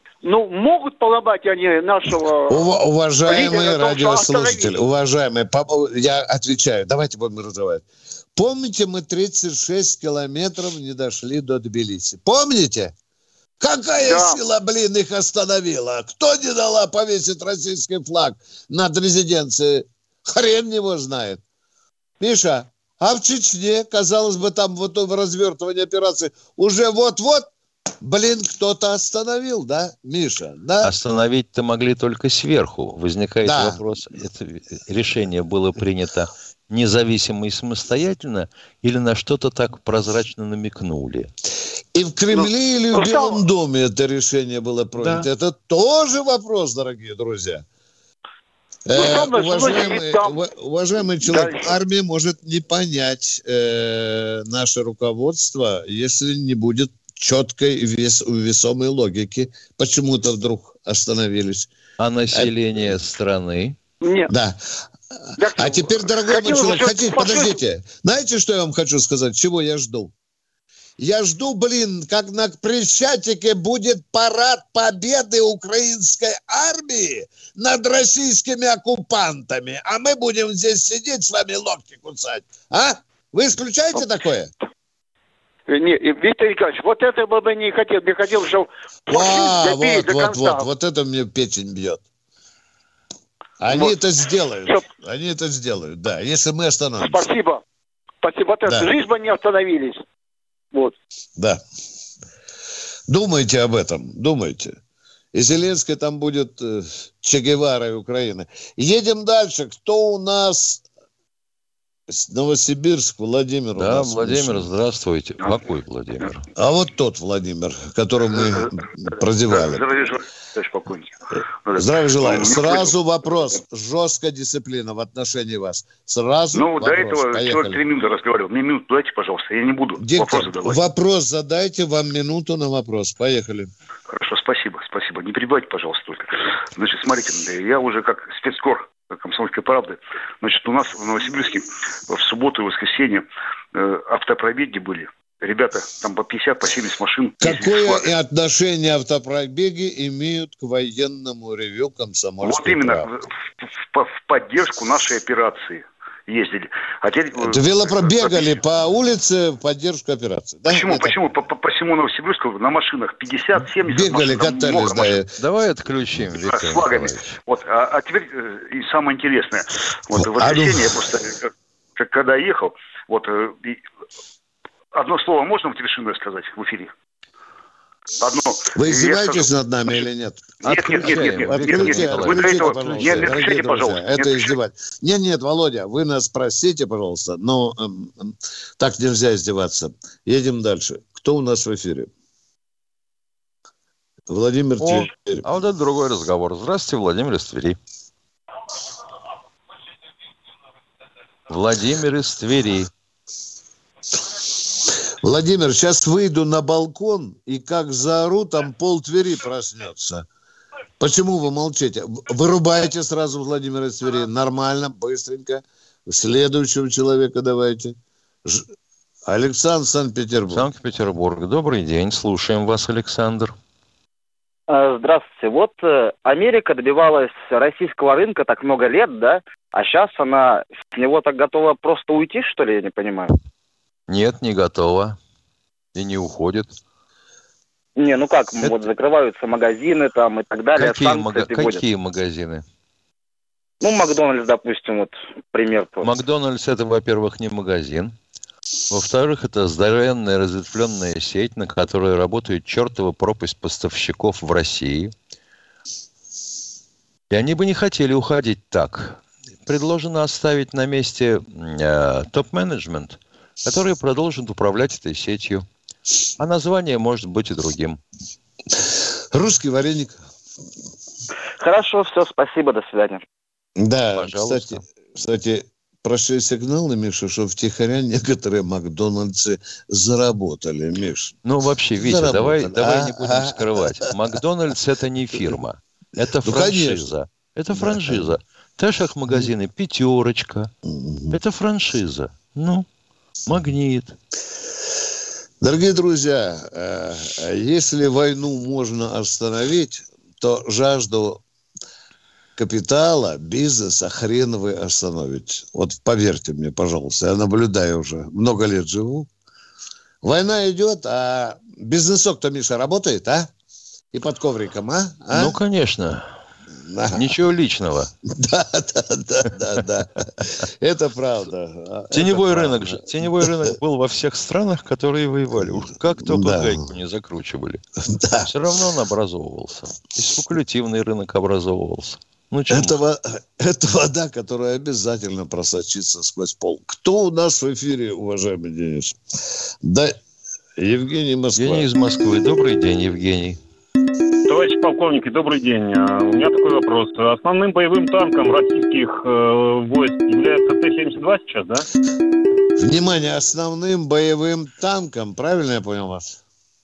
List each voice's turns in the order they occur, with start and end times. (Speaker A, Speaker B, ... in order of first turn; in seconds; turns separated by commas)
Speaker A: 0.2-2.6, Speaker B: 2.5-12.9, Speaker A: 3.3-4.8, Speaker B: 13.6-21.4, Speaker A: 14.0-14.4, Speaker B: 22.2-30.9, Speaker C: 30.8-41.3, Speaker B: 33.4-33.8, Speaker B: 41.9-47.6, Speaker A: 42.3-43.4, Speaker B: 48.9-61.7, Speaker A: 48.9-50.4, Speaker A: 51.2-51.7, Speaker C: 62.0-63.8, Speaker B: 62.3-62.9, Speaker A: 64.0-64.3, Speaker B: 64.3-64.6, Speaker B: 65.2-70.1, Speaker A: 65.4-67.6, Speaker B: 71.0-84.5, Speaker A: 85.7-90.7, Speaker B: 89.1-92.0, Speaker B: 93.6-97.2, Speaker A: 93.7-94.0, Speaker A: 97.0-97.6, Speaker A: 98.2-100.0, Speaker B: 98.7-98.9, Speaker B: 103.1-104.8, Speaker B: 105.3-110.8, Speaker B: 112.1-114.7, Speaker C: 113.8-116.5, Speaker B: 116.6-119.8, Speaker D: 119.5-121.2, Speaker D: 121.7-123.0, Speaker B: 121.8-127.8, Speaker D: 126.5-130.8, Speaker B: 130.0-133.7, Speaker D: 134.1-148.1, Speaker B: 147.4-153.1, Speaker D: 152.4-153.2, Speaker D: 153.9-158.6, Speaker B: 157.5-161.1, Speaker D: 160.7-165.2, Speaker B: 163.9-165.3, Speaker C: 165.4-167.4, Speaker D: 166.4-173.8, Speaker B: 170.2-170.9, Speaker D: 174.9-176.9, Speaker D: 178.2-180.0, Speaker B: 178.8-192.1, Speaker C: 180.6-183.4, Speaker D: 180.7-184.5, Speaker B: 194.3-195.4, Speaker C: 194.8-197.8, Speaker C: 201.5-202.9, Speaker B: 205.2-210.3, Speaker B: 211.0-218.7, Speaker B: 219.3-220.7, Speaker C: 220.5-223.6, Speaker E: 224.7-233.4, Speaker C: 234.1-235.2, Speaker C: 235.9-236.8, Speaker E: 238.0-241.8, Speaker C: 240.8-242.6, Speaker E: 243.8-246.1, Speaker C: 246.0-248.2, Speaker C: 248.9-255.1, Speaker C: 257.3-265.7, Speaker C: 266.4-268.0, Speaker B: 269.3-270.2, Speaker E: 271.6-273.2, Speaker B: 273.8-281.4, Speaker C: 274.1-274.8, Speaker C: 281.4-290.7, Speaker B: 282.0-283.8, Speaker B: 286.4-287.1, Speaker B: 287.7-288.4, Speaker B: 290.9-291.4, Speaker C: 291.3-292.9, Speaker C: 293.5-294.1, Speaker B: 295.6-301.4, Speaker B: 302.6-309.3, Speaker B: 310.2-313.5, Speaker B: 314.1-315.6, Speaker C: 315.3-316.3, Speaker B: 316.9-317.3, Speaker C: 317.1-318.1, Speaker B: 318.3-323.7, Speaker C: 322.1-327.8, Speaker B: 325.6-326.9, Speaker B: 328.1-328.5, Speaker C: 328.4-333.0, Speaker B: 332.7-339.2, Speaker B: 339.8-340.2, Speaker B: 340.8-341.9, Speaker C: 341.6-343.6, Speaker F: 344.5-351.9, Speaker B: 352.8-356.4